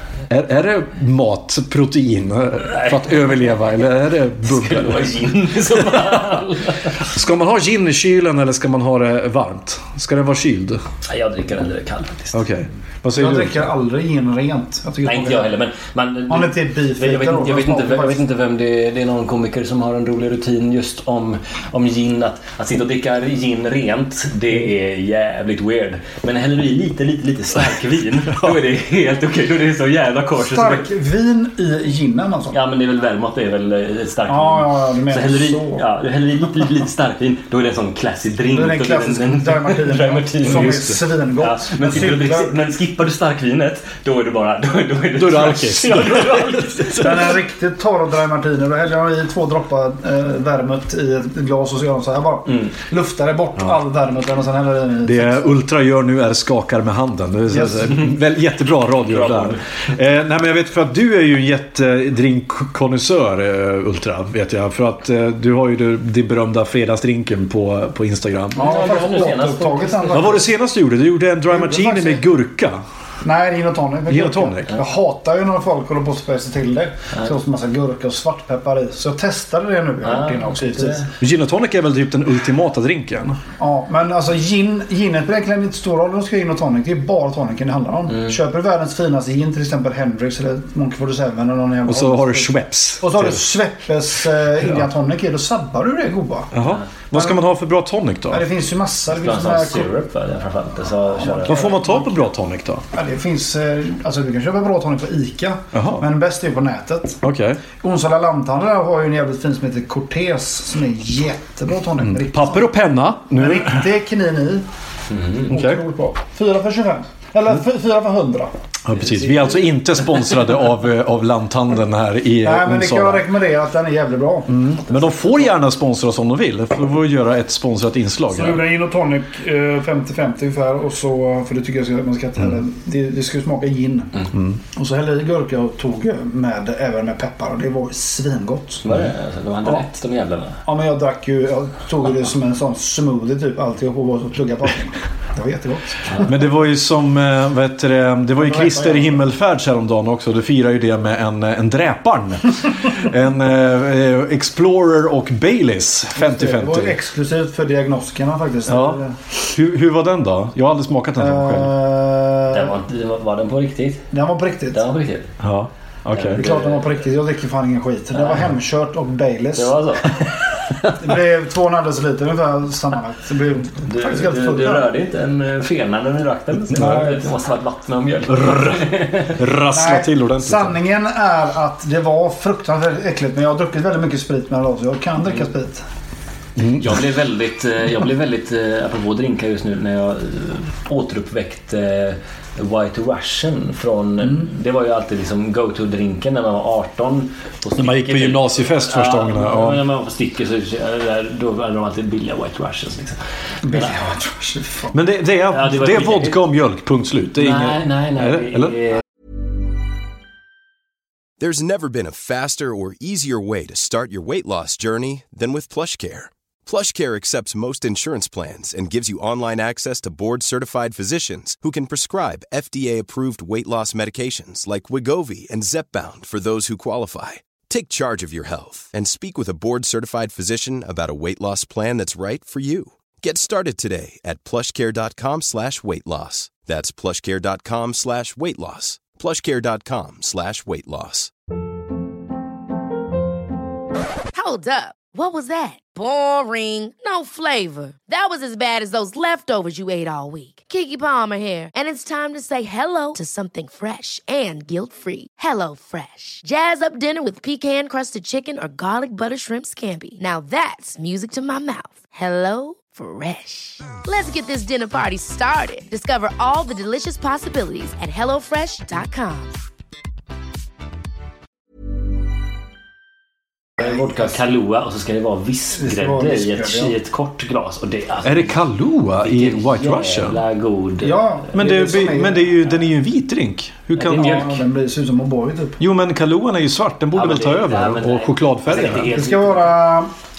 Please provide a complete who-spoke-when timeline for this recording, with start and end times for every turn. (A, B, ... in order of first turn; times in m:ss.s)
0:00.3-0:06.2 A
0:02.6-0:03.5 B
0:04.4-0:06.9 B
0:07.0-0:10.8 A
0:11.0-0:12.4 B
0:12.3-0:13.6 A
0:13.1-0:15.5 C
0:15.0-0:30.9 B
0:16.3-0:18.2 C
0:30.4-0:32.6 C
0:32.5-0:40.8 B
0:34.3-0:35.8 C
0:38.5-0:42.5 C
0:40.5-0:41.0 A
0:41.4-0:47.3 B
0:45.2-0:47.4 A
0:47.0-0:55.6 C
0:55.0-1:08.9 A
0:57.5-0:58.0 C
0:59.0-0:59.6 B
1:08.6-1:10.4 B
1:08.6-1:10.5 C
1:10.1-1:12.8 A
1:11.5-1:12.2 C
1:13.2-1:21.1 C
1:14.1-1:14.8 A
1:20.0-1:21.1 B
1:21.2-1:23.4 A
1:23.6-1:36.5 C
1:31.8-1:33.4 A
1:36.5-1:38.4 A
1:37.1-1:37.4 C
1:38.3-1:39.9 C
1:39.1-1:41.7 B
1:41.2-1:42.1 C
1:41.5-1:42.8 A
1:42.9-1:47.2 C
1:45.7-1:46.0 A
1:47.2-1:47.6 A
1:47.8-1:52.7 C
1:52.0-1:53.8 A
1:53.3-1:54.6 C
1:55.1-1:55.5 B
1:55.4-1:58.5 C
1:55.5-1:55.8 A
1:58.8-2:03.3 A
2:02.4-2:05.1 C
2:04.5-2:08.6 A
2:08.3-2:14.1 C
2:14.7-2:18.8 C
2:18.8-2:20.6 B
2:20.6-2:26.3 C
2:26.2-2:37.0 A
2:28.4-2:29.2 C
2:36.2-2:39.2 C
2:38.7-2:41.7 A
2:41.2-2:42.7 C
2:42.5-2:44.0 B
2:44.1-2:44.8 C
2:44.7-2:45.3 B
2:45.4-2:46.4 A
2:46.1-2:46.9 B
2:46.3-2:49.8 C
2:48.1-2:48.5 B
2:49.6-2:50.4 B
2:50.9-2:54.9 C
2:53.8-2:59.4 B
2:56.7-2:57.2 C
2:56.7-2:57.1 A
2:58.3-3:00.8 A
2:59.7-3:05.8 C
3:06.6-3:06.8 A
3:06.7-3:24.0 B
3:17.8-3:19.8 A
3:23.6-3:25.0 C
3:24.9-3:28.7 A
3:25.5-3:26.4 B
3:27.4-3:29.0 B
3:31.4-4:01.3 D
4:04.3-4:29.5 E
4:33.8-4:38.6 B
4:35.8-4:36.9 C
4:38.2-4:40.4 A
4:39.2-4:41.2 B
4:41.0-4:42.5 C
4:41.5-4:44.5 A
4:44.0-4:44.6 B
4:44.1-4:45.8 C
4:45.8-4:49.1 A
4:47.1-4:49.7 B
4:48.9-4:50.1 C